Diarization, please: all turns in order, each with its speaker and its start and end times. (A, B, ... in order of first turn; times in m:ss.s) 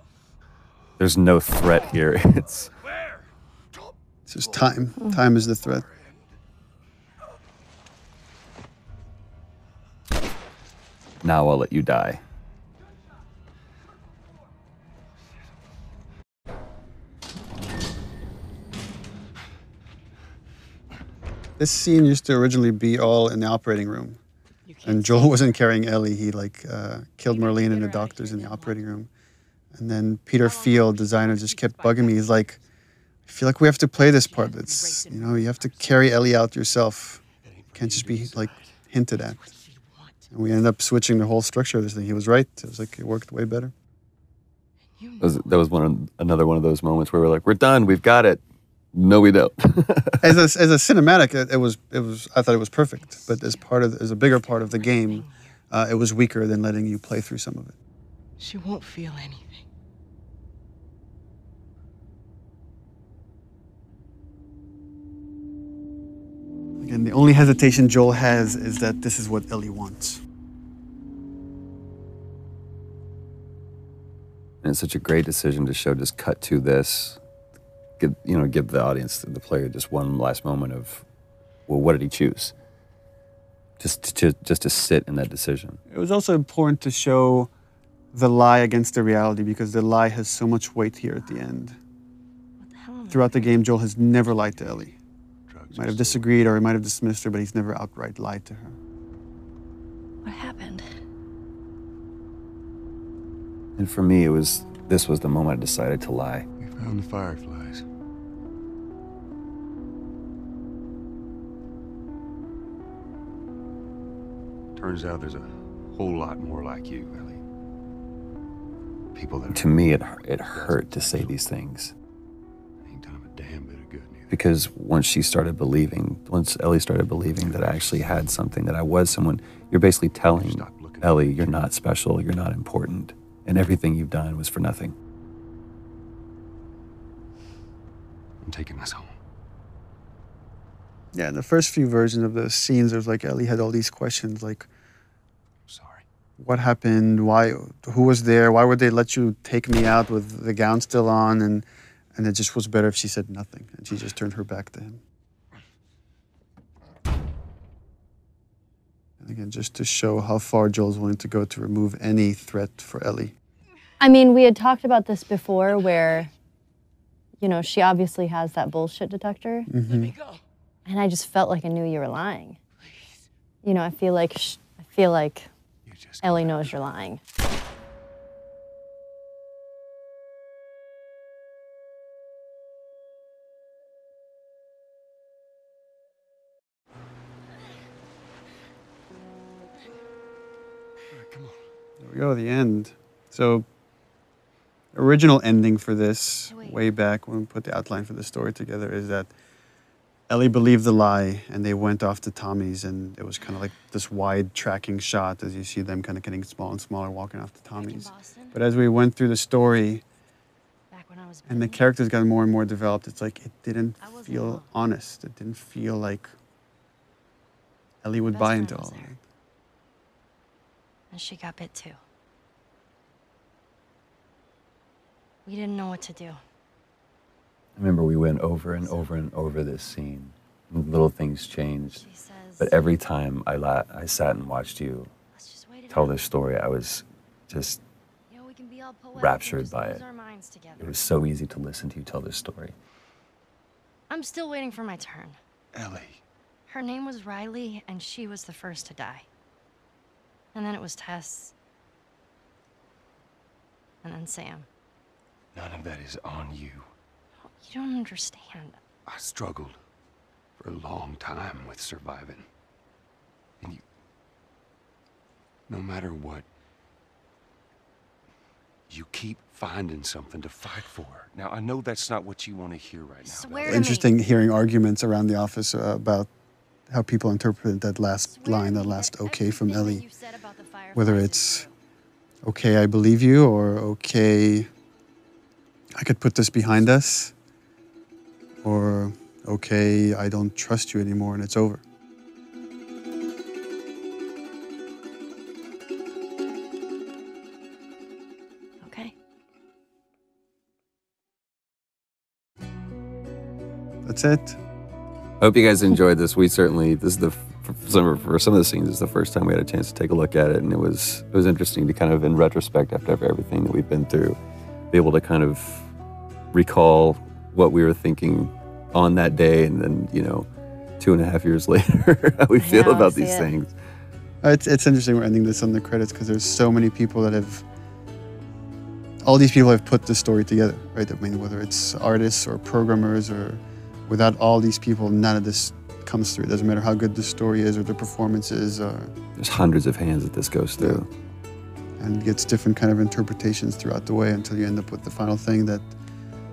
0:01.0-0:02.7 A
0:04.3-0:05.8 B
0:05.8-0:06.2 C
0:11.2-0:12.2 A
0:21.6-0:24.2 B
0:24.6-0:25.6 D
0:24.8-0:29.1 B
0:27.2-0:28.9 D
0:29.7-0:32.6 B
0:30.4-0:32.3 D
0:33.2-0:37.2 B
0:33.9-0:36.3 D
0:37.4-0:38.7 C
0:37.7-0:39.4 B
0:39.2-0:40.2 D
0:40.3-0:43.7 B
0:45.0-0:45.7 D
0:45.2-0:48.4 A
0:48.9-0:50.4 A
0:50.2-0:57.7 B
0:53.0-0:53.6 D
0:54.4-0:55.5 D
0:58.4-0:59.7 D
1:06.8-1:10.2 B
1:14.6-1:17.2 A
1:18.0-1:21.0 A
1:21.7-1:22.5 A
1:23.8-1:25.8 A
1:25.9-1:27.5 B
1:28.1-1:31.8 B
1:32.6-1:33.5 E
1:33.1-1:35.0 B
1:35.5-1:36.3 C
1:35.7-1:38.8 B
1:40.2-1:40.8 E
1:43.8-1:46.5 A
1:46.6-1:47.8 C
1:54.8-1:57.4 C
1:59.1-1:59.9 C
1:59.5-2:01.9 A
2:00.5-2:01.4 C
2:02.8-2:04.4 C
2:04.3-2:14.9 A
2:07.4-2:08.2 C
2:10.3-2:11.8 C
2:18.4-2:19.1 C
2:21.1-2:24.7 B
2:25.7-2:26.0 C
2:26.4-2:35.0 B
2:39.2-2:43.3 B
2:44.0-2:46.3 F
2:47.4-2:49.7 F
2:49.7-2:50.2 B
2:49.9-2:50.4 D
2:50.8-2:52.6 F
2:53.6-2:55.5 F
2:55.8-2:56.8 C
2:56.2-2:57.2 F
3:11.1-3:11.6 C
3:12.0-3:13.7 B
3:14.9-3:19.3 B
3:16.5-3:16.8 E
3:20.3-3:30.0 B
3:27.8-3:28.6 E
3:30.9-3:31.8 E
3:31.5-3:36.3 B
3:34.0-3:34.7 E
3:38.0-3:39.2 B
3:38.3-3:39.1 E
3:41.1-3:42.0 E
3:45.4-3:46.4 E
3:47.8-3:52.0 A
3:51.9-3:52.8 E
3:52.6-3:55.1 A
3:55.3-3:56.2 E
3:55.9-3:57.8 A
3:58.3-4:01.0 E
3:59.2-4:00.0 A
4:00.8-4:02.7 A
4:04.1-4:05.4 E
4:05.7-4:06.2 C
4:06.7-4:09.3 E
4:10.5-4:11.5 E
4:14.0-4:14.7 E
4:15.5-4:16.9 C
4:17.4-4:18.8 E
4:19.0-4:19.8 C
4:20.6-4:22.4 C
4:25.7-4:26.4 C
4:28.9-4:33.9 C
4:33.2-4:34.1 E
4:33.6-4:36.3 B
4:36.9-4:40.0 B
4:38.2-4:41.7 E
4:40.9-4:41.7 B
4:42.4-4:44.7 B
4:46.0-4:47.3 B
4:48.6-4:51.8 B
4:58.8-4:59.1 E
5:04.0-5:04.6 B
5:05.4-5:14.4 A
5:14.9-5:15.9 A
5:16.5-5:20.5 A
5:21.0-5:23.7 A
5:22.6-5:23.5 F
5:24.4-5:27.6 B
5:29.2-5:39.1 B
5:39.4-5:41.1 A
5:40.8-5:41.0 B
5:42.0-5:45.9 B